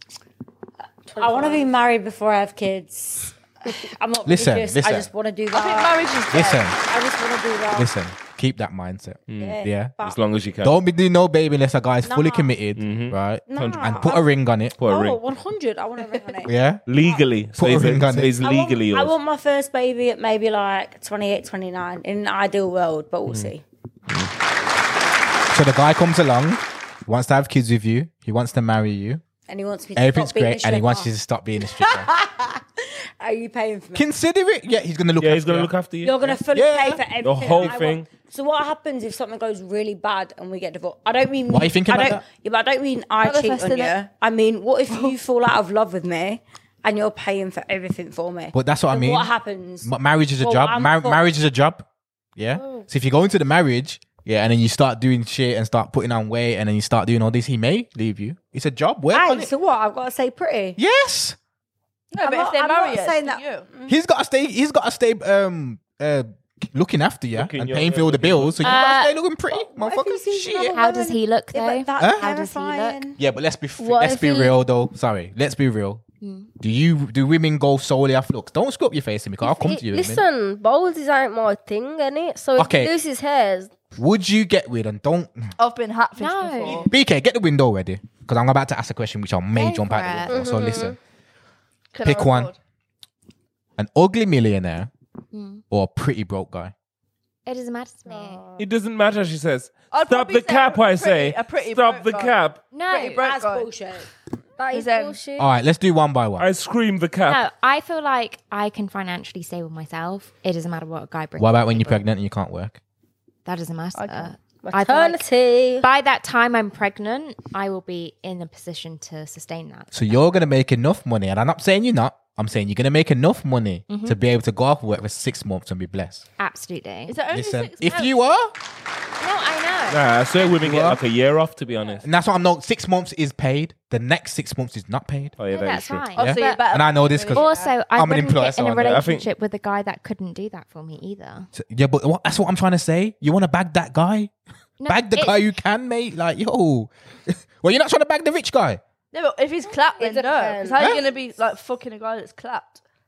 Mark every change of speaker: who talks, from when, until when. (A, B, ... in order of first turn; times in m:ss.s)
0:01.1-0:07.9 A
0:01.1-0:01.6 B
0:04.2-0:05.1 C
0:05.5-0:06.6 D
0:06.3-0:06.8 C
0:07.7-0:09.9 C
0:09.3-0:10.7 E
0:09.4-0:10.2 A
0:10.6-0:14.7 C
0:12.0-0:12.5 A
0:12.8-0:14.1 E
0:13.5-0:14.2 A
0:14.8-0:15.2 E
0:14.9-0:17.2 A
0:16.4-0:16.8 C
0:16.9-0:19.1 E
0:17.6-0:18.3 C
0:18.4-0:23.6 A
0:23.3-0:23.5 E
0:25.5-0:29.2 C
0:29.5-0:31.1 A
0:30.0-0:32.1 C
0:31.7-0:34.1 A
0:33.9-0:35.7 C
0:35.2-0:36.4 E
0:36.0-0:49.9 A
0:36.5-0:37.0 C
0:37.2-0:38.1 E
0:41.5-0:42.2 C
0:43.2-0:43.9 D
0:44.9-0:45.1 D
0:48.5-0:49.3 C
0:49.8-0:59.5 C
0:50.4-0:51.2 A
0:59.1-1:00.8 A
1:00.8-1:01.4 C
1:02.1-1:03.7 D
1:02.2-1:04.0 A
1:03.9-1:10.8 C
1:07.3-1:08.6 E
1:08.6-1:09.2 F
1:09.5-1:13.2 A
1:10.7-1:13.1 F
1:12.0-1:12.2 C
1:13.2-1:16.0 C
1:13.8-1:14.6 B
1:16.2-1:16.5 F
1:16.6-1:20.2 C
1:19.4-1:23.7 B
1:22.6-1:22.9 C
1:23.9-1:25.5 C
1:25.6-1:26.9 D
1:26.2-1:26.9 F
1:26.8-1:31.0 C
1:29.5-1:30.8 F
1:30.3-1:31.0 B
1:31.9-1:32.6 D
1:32.0-1:32.5 C
1:33.8-1:34.9 C
1:35.3-1:35.6 F
1:35.7-1:36.7 C
1:37.4-1:38.4 F
1:38.6-1:42.6 E
1:39.9-1:42.4 D
1:42.7-1:43.3 F
1:42.9-1:43.7 D
1:43.2-1:44.1 A
1:44.6-1:45.5 B
1:44.7-1:45.2 D
1:45.4-1:46.5 C
1:46.4-1:47.4 E
1:47.2-1:52.0 F
1:51.4-1:52.8 C
1:53.4-1:55.2 F
1:53.9-1:54.3 D
1:54.6-1:55.8 B
1:55.8-2:00.2 F
1:59.9-2:06.2 C
2:03.9-2:04.2 F
2:06.4-2:07.3 F
2:07.1-2:08.1 D
2:07.3-2:08.5 C
2:07.8-2:08.1 F
2:09.2-2:10.5 F
2:09.9-2:12.0 E
2:10.6-2:11.0 C
2:12.0-2:15.4 C
2:15.4-2:16.1 E
2:15.4-2:21.5 F
2:16.2-2:17.8 D
2:16.2-2:19.1 C
2:18.8-2:19.3 E
2:21.5-2:24.3 C
2:24.8-2:25.4 F
2:24.9-2:28.8 C
2:29.1-2:32.8 D
2:30.0-2:31.0 B